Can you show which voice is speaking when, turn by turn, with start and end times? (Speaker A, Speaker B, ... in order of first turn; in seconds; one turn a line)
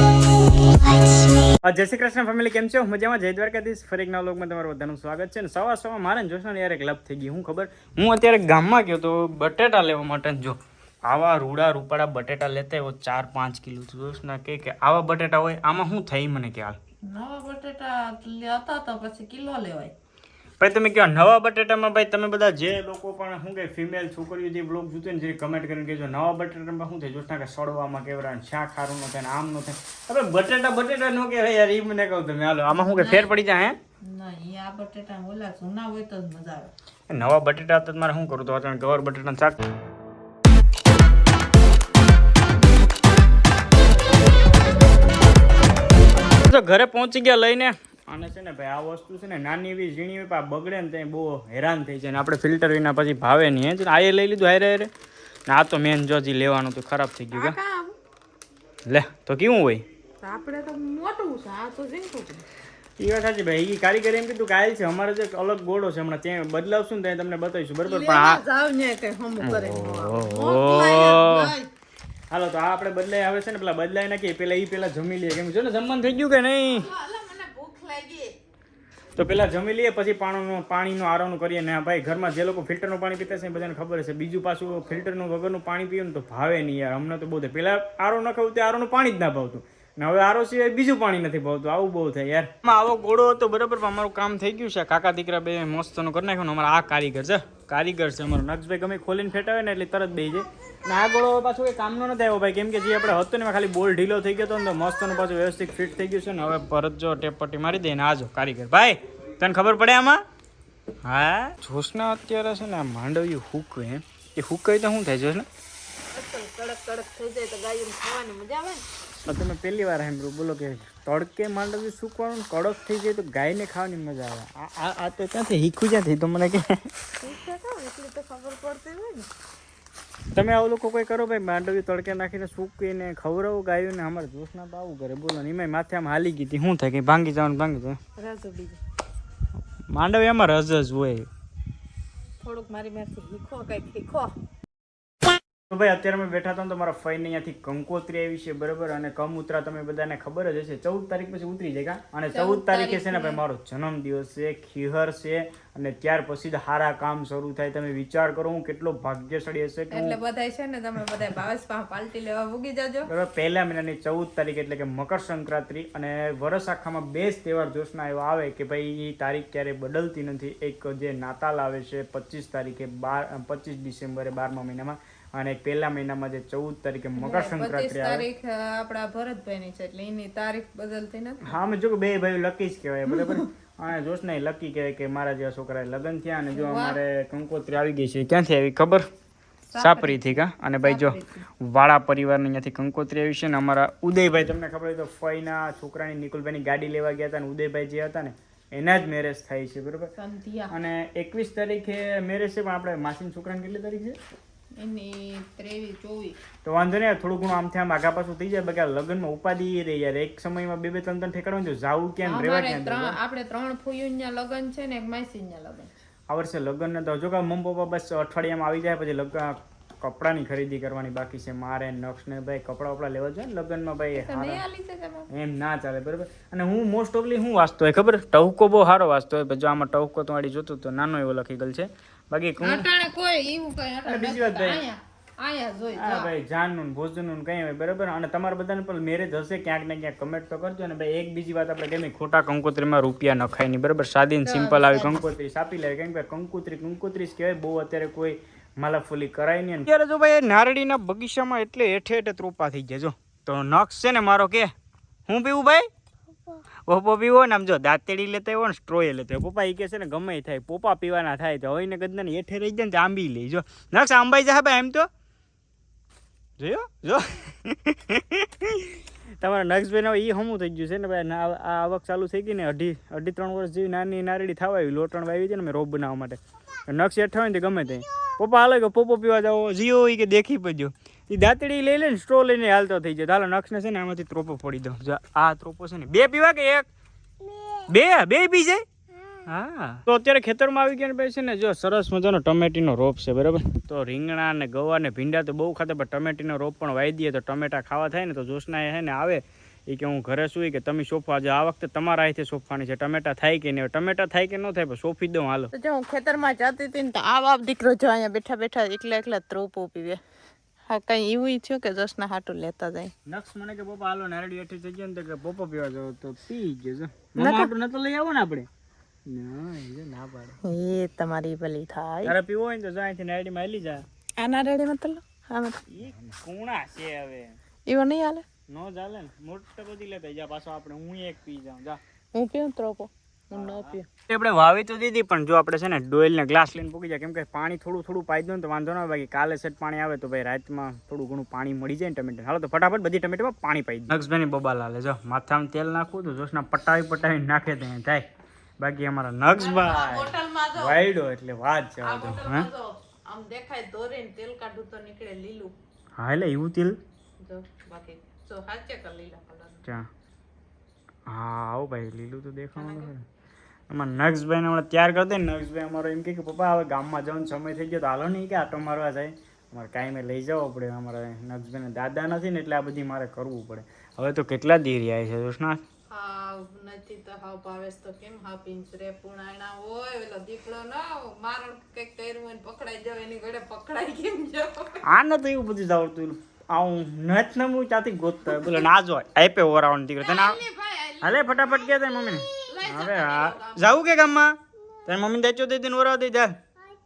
Speaker A: 1.6-16.8
Speaker B: 17.0-19.9
Speaker A: 20.6-33.8
Speaker B: 32.7-33.3
Speaker B: 34.0-36.7
Speaker A: 37.1-39.6
Speaker A: 46.2-54.9
Speaker A: 55.5-57.5
Speaker B: 57.3-58.0
Speaker A: 58.9-59.8
Speaker B: 60.2-62.4
Speaker A: 63.0-68.4
Speaker B: 67.8-71.7
Speaker A: 69.4-71.5
Speaker A: 72.3-76.9
Speaker B: 76.7-78.3
Speaker A: 79.2-110.2
Speaker A: 111.0-115.5
Speaker B: 116.1-118.8
Speaker A: 119.2-126.9
Speaker B: 127.2-129.3
Speaker A: 130.3-138.0
Speaker B: 138.2-138.8
Speaker A: 139.9-141.3
Speaker B: 142.4-144.3
Speaker A: 145.7-160.2
Speaker B: 152.3-153.4
Speaker B: 159.9-163.1
Speaker A: 163.1-178.2
Speaker B: 177.2-181.6
Speaker A: 181.4-189.0
Speaker B: 183.1-183.4
Speaker B: 186.5-187.0
Speaker B: 189.7-191.4
Speaker A: 189.8-200.1
Speaker B: 200.2-200.7
Speaker A: 200.7-204.2
Speaker B: 204.8-206.4
Speaker A: 206.6-213.2
Speaker B: 212.2-215.9
Speaker A: 216.3-224.6
Speaker B: 224.1-225.3
Speaker A: 225.3-232.8
Speaker B: 232.6-236.3
Speaker A: 234.0-234.8
Speaker A: 235.9-254.7
Speaker B: 244.4-245.2
Speaker A: 255.3-255.9
Speaker A: 256.9-265.1
Speaker A: 266.6-286.9
Speaker A: 287.9-288.8
Speaker A: 289.4-305.7
Speaker B: 305.7-310.2
Speaker B: 310.9-313.1
Speaker A: 313.3-318.7
Speaker B: 317.4-317.7
Speaker A: 319.3-320.6
Speaker B: 320.6-322.3
Speaker A: 322.2-324.0
Speaker B: 324.4-325.8
Speaker A: 325.9-327.6
Speaker B: 327.9-328.4
Speaker A: 328.7-332.0
Speaker B: 332.3-334.1
Speaker A: 333.5-348.3
Speaker A: 348.8-352.7
Speaker B: 349.6-351.1
Speaker B: 352.0-355.7
Speaker A: 356.2-357.0
Speaker B: 357.4-359.9
Speaker A: 361.3-363.2
Speaker B: 362.8-363.1
Speaker A: 363.9-375.8
Speaker B: 376.1-385.0
Speaker A: 385.0-390.6
Speaker B: 390.2-392.0
Speaker A: 391.2-396.6
Speaker B: 392.5-394.0